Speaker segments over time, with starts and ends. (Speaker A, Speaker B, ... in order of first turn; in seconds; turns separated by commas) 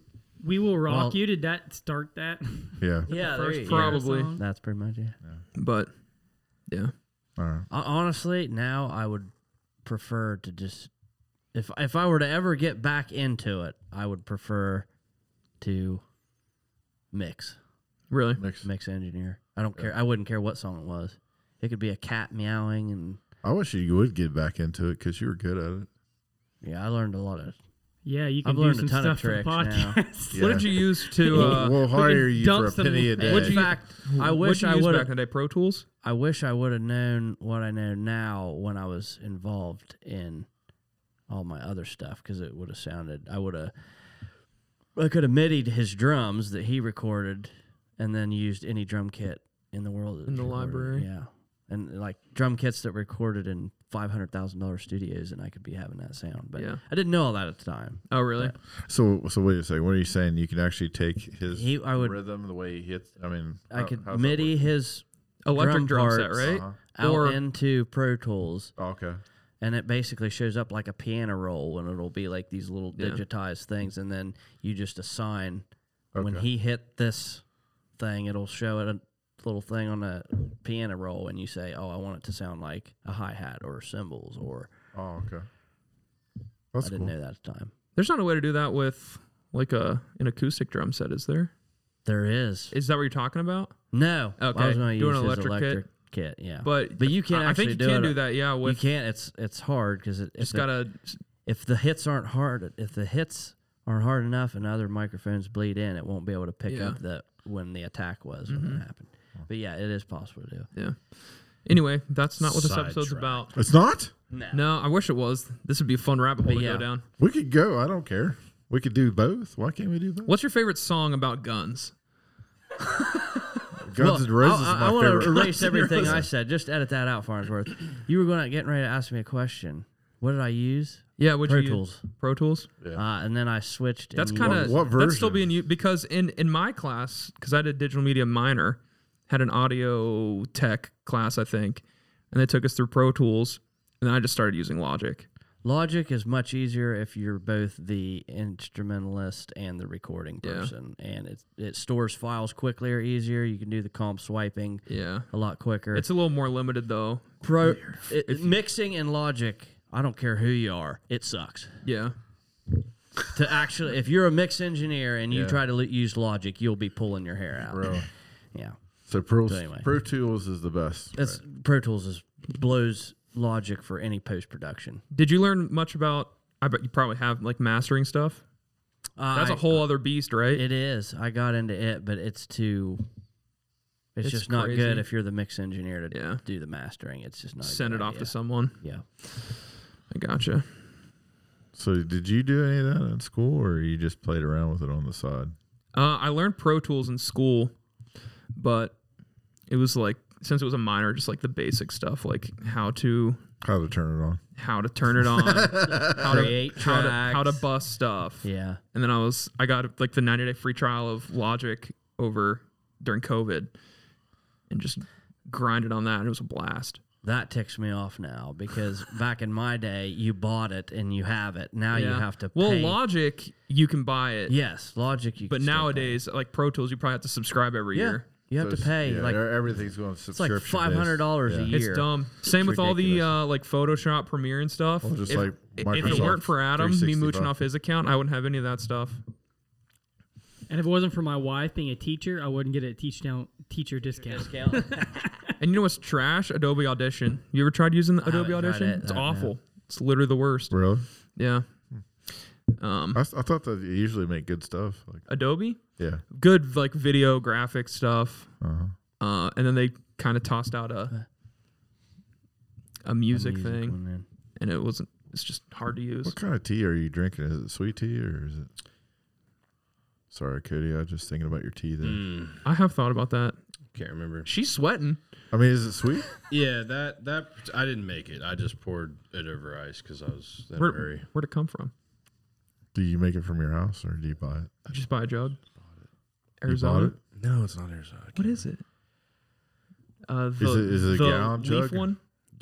Speaker A: 0.4-4.4, Speaker B: 0.9-1.2, Speaker C: 2.8-3.1, Speaker B: 3.1-5.2, Speaker D: 3.6-4.3, Speaker D: 5.6-5.9, Speaker D: 6.7-6.9, Speaker C: 7.4-7.7, Speaker B: 7.7-9.3, Speaker B: 9.8-10.9, Speaker B: 11.5-14.9, Speaker B: 15.6-16.0, Speaker B: 17.1-17.6, Speaker D: 18.1-18.4, Speaker C: 18.4-18.7, Speaker B: 18.6-23.2, Speaker C: 23.4-25.9, Speaker B: 26.6-27.6, Speaker A: 28.1-33.6, Speaker B: 28.4-30.0, Speaker C: 30.3-30.7, Speaker D: 30.4-31.8, Speaker B: 31.3-31.7, Speaker C: 31.3-33.7, Speaker B: 33.2-35.1, Speaker D: 33.3-35.9, Speaker B: 36.0-40.5, Speaker B: 41.3-43.7, Speaker B: 45.0-58.6, Speaker D: 50.3-51.1, Speaker D: 56.6-56.8, Speaker D: 58.1-58.5, Speaker C: 58.8-64.6, Speaker B: 61.5-62.2, Speaker B: 63.7-68.7, Speaker D: 65.5-67.4, Speaker C: 66.4-66.8, Speaker C: 68.8-69.2, Speaker B: 69.6-75.7, Speaker C: 76.1-76.5, Speaker B: 76.2-77.4, Speaker B: 78.0-84.7, Speaker C: 84.9-85.5, Speaker C: 86.7-87.1, Speaker B: 86.8-87.7, Speaker D: 88.0-91.5, Speaker B: 92.0-92.8, Speaker D: 92.7-93.7, Speaker B: 93.9-100.8, Speaker D: 94.4-95.9, Speaker D: 96.6-98.9, Speaker D: 100.4-101.2, Speaker B: 101.5-110.7, Speaker D: 106.7-107.0, Speaker D: 108.5-108.8, Speaker D: 110.7-113.5, Speaker E: 112.4-113.5, Speaker C: 113.5-114.1, Speaker B: 114.3-114.6, Speaker D: 114.5-117.0, Speaker B: 116.5-116.9, Speaker C: 117.2-120.3, Speaker D: 120.3-121.9, Speaker D: 123.0-123.4, Speaker C: 123.8-126.2, Speaker B: 124.0-132.1, Speaker D: 131.2-132.7, Speaker B: 132.9-134.9, Speaker D: 134.2-145.3, Speaker C: 134.4-135.4, Speaker B: 145.6-156.1, Speaker D: 150.4-150.7, Speaker D: 154.9-155.3, Speaker D: 155.9-158.5, Speaker B: 157.4-161.8, Speaker D: 161.8-162.2, Speaker B: 163.3-168.0, Speaker C: 165.3-165.6, Speaker C: 167.7-168.1, Speaker C: 169.1-171.4, Speaker B: 169.5-169.9, Speaker B: 171.2-175.0, Speaker D: 175.1-178.4, Speaker B: 179.2-179.9, Speaker D: 179.3-180.7, Speaker B: 180.5-183.1, Speaker B: 184.2-189.0, Speaker D: 184.2-185.1, Speaker D: 186.1-186.4, Speaker D: 187.6-188.8, Speaker D: 190.1-190.7, Speaker C: 191.8-195.6, Speaker D: 195.9-197.7, Speaker D: 198.6-199.0, Speaker D: 199.7-203.4, Speaker C: 203.6-204.4, Speaker D: 204.6-213.7, Speaker C: 205.2-206.4, Speaker B: 205.8-207.7, Speaker B: 208.4-208.8, Speaker D: 214.7-217.0, Speaker B: 217.2-223.0, Speaker D: 221.9-224.6, Speaker B: 224.5-226.2, Speaker D: 225.5-228.3, Speaker B: 227.9-229.5, Speaker C: 228.6-231.7, Speaker B: 230.3-232.1, Speaker D: 231.7-239.2, Speaker C: 235.0-237.5, Speaker B: 236.0-236.3, Speaker A: 240.7-245.6, Speaker B: 244.0-245.1, Speaker D: 245.6-250.8, Speaker B: 248.2-249.5, Speaker C: 250.7-251.1, Speaker D: 251.4-251.7, Speaker D: 252.8-253.2, Speaker C: 253.2-255.2, Speaker D: 255.3-258.5, Speaker C: 256.0-256.2, Speaker C: 258.6-258.9, Speaker D: 259.2-261.1, Speaker D: 263.0-264.0, Speaker B: 263.3-264.3, Speaker D: 264.6-266.4, Speaker C: 266.2-268.7, Speaker C: 270.3-272.2, Speaker E: 272.0-272.6, Speaker D: 272.6-273.6, Speaker E: 273.9-274.5, Speaker D: 274.4-275.2, Speaker C: 275.5-276.3, Speaker E: 276.5-281.3, Speaker D: 280.8-281.9, Speaker C: 282.9-284.8, Speaker D: 284.9-285.6, Speaker E: 285.8-286.1, Speaker D: 286.6-287.2, Speaker C: 286.7-287.2, Speaker E: 287.4-288.6, Speaker D: 288.4-288.8, Speaker D: 290.3-292.2, Speaker C: 290.6-292.1